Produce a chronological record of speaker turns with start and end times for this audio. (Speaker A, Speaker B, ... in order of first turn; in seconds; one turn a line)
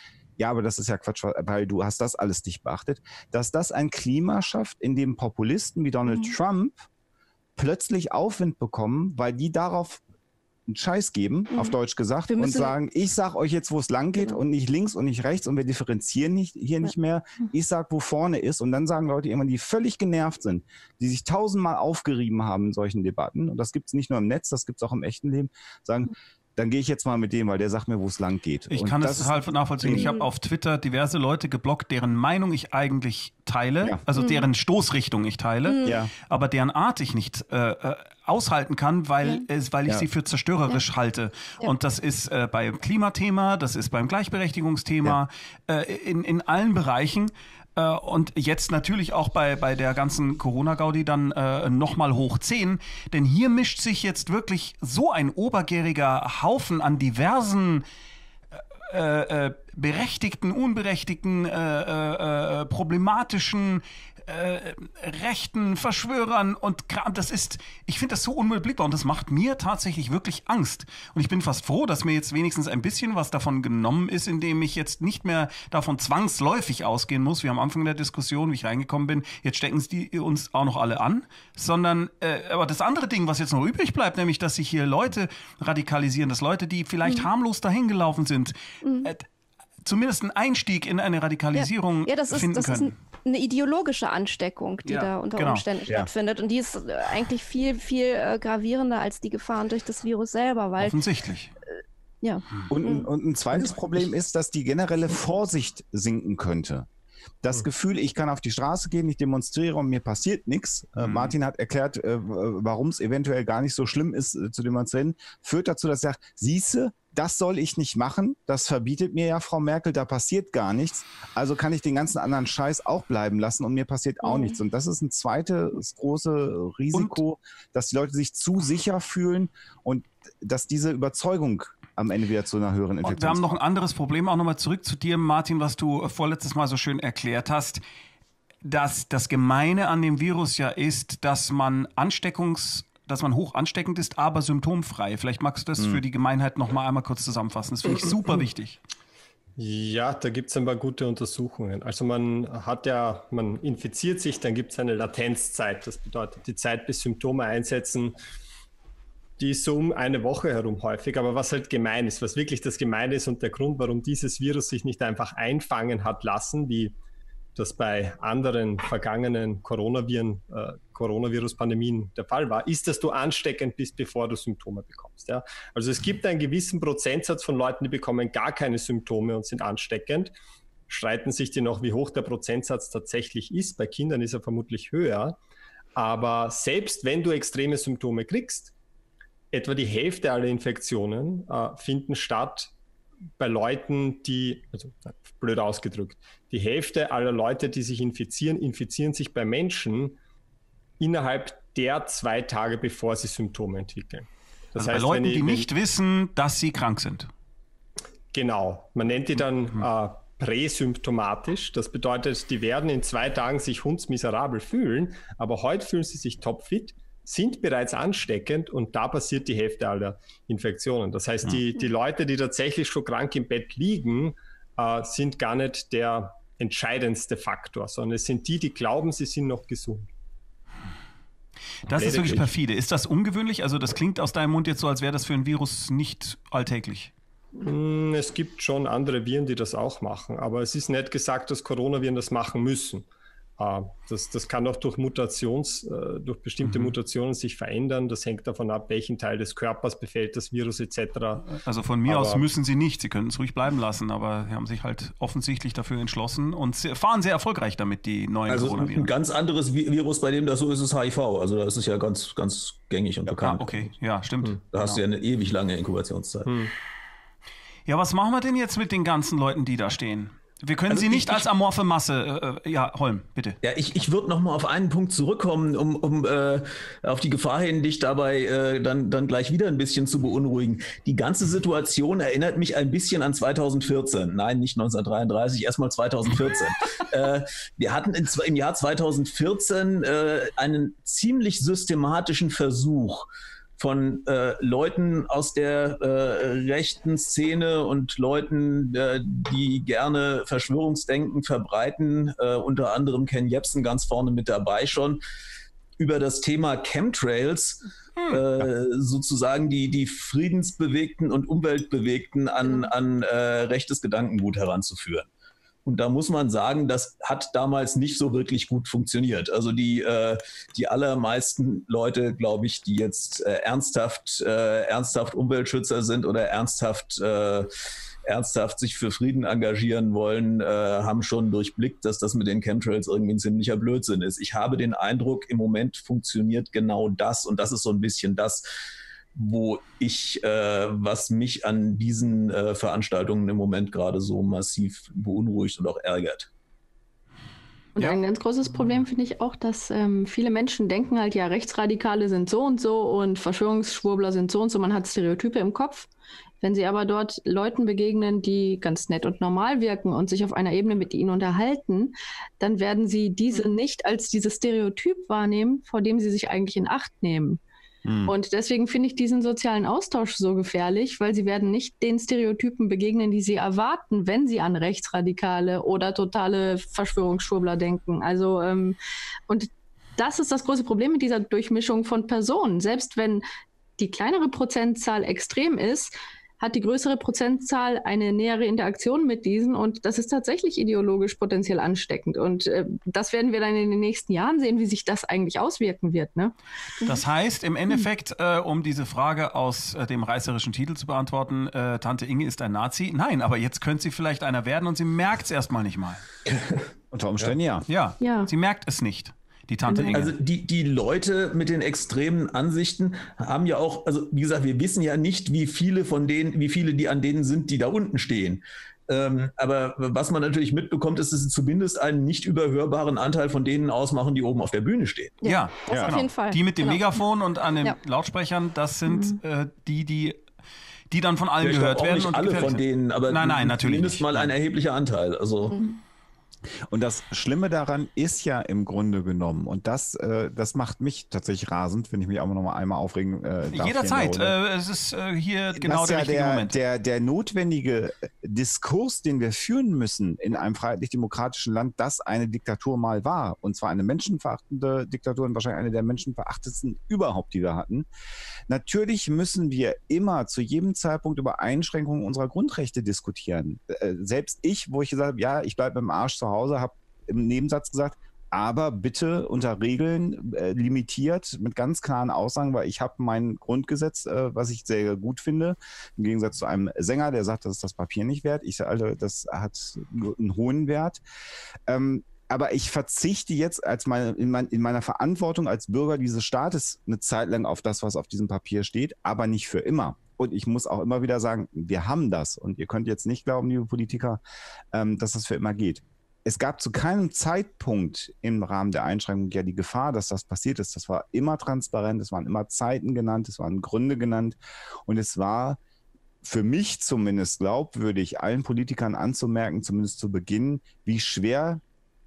Speaker A: 0.4-6.8
Speaker A: 7.6-10.0
Speaker A: 10.7-30.1
Speaker B: 12.3-12.7
Speaker C: 28.7-57.9
Speaker B: 29.9-30.2
Speaker B: 34.2-34.5
Speaker B: 35.7-36.0
Speaker A: 35.8-36.1
Speaker C: 58.9-89.2
Speaker B: 88.8-89.1
Speaker C: 89.8-92.9
Speaker B: 91.5-101.0
Speaker C: 94.9-95.7
Speaker C: 100.8-101.5
Speaker B: 102.2-103.1
Speaker A: 102.7-106.9
Speaker A: 107.4-133.6
Speaker C: 111.0-111.3
Speaker B: 124.2-124.5
Speaker C: 126.9-127.2
Speaker C: 133.0-137.8
Speaker C: 138.6-148.8
Speaker D: 149.6-158.2
Speaker D: 159.4-167.0
Speaker D: 167.6-180.3
Speaker D: 180.9-185.4
Speaker D: 185.9-188.7
Speaker D: 189.5-192.7
Speaker D: 193.4-200.2
Speaker D: 201.0-205.7
Speaker C: 204.8-207.3
Speaker D: 208.3-230.1
Speaker D: 231.9-232.5
Speaker C: 231.9-237.1
Speaker D: 237.6-243.1
Speaker D: 243.6-252.4
Speaker C: 246.6-246.9
Speaker C: 251.6-259.1
Speaker E: 258.5-263.9
Speaker C: 263.4-265.0
Speaker E: 264.7-266.5
Speaker D: 266.5-266.7
Speaker C: 267.9-273.6
Speaker E: 270.9-271.4
Speaker E: 273.6-293.3
Speaker E: 293.8-305.2
Speaker E: 306.0-315.3
Speaker C: 308.2-308.4
Speaker E: 315.9-327.7
Speaker E: 328.3-338.6
Speaker E: 339.4-346.5
Speaker F: 348.0-356.1
Speaker F: 356.6-367.6
Speaker A: 368.1-368.4
Speaker F: 368.3-379.0
Speaker F: 379.5-383.4
Speaker F: 384.0-396.5
Speaker C: 397.0-406.2
Speaker E: 406.5-406.8
Speaker A: 407.1-407.9
Speaker C: 407.9-410.3
Speaker F: 408.2-408.5
Speaker F: 409.9-410.2
Speaker E: 410.0-425.4
Speaker B: 425.4-427.1
Speaker C: 425.4-430.4
Speaker A: 425.9-426.2
Speaker F: 429.1-429.4
Speaker C: 431.1-434.5
Speaker E: 431.6-435.8
Speaker A: 436.9-444.6
Speaker C: 443.7-446.8
Speaker A: 445.8-458.1
Speaker A: 458.7-481.2
Speaker A: 481.9-494.4
Speaker A: 494.9-505.8
Speaker A: 506.4-511.8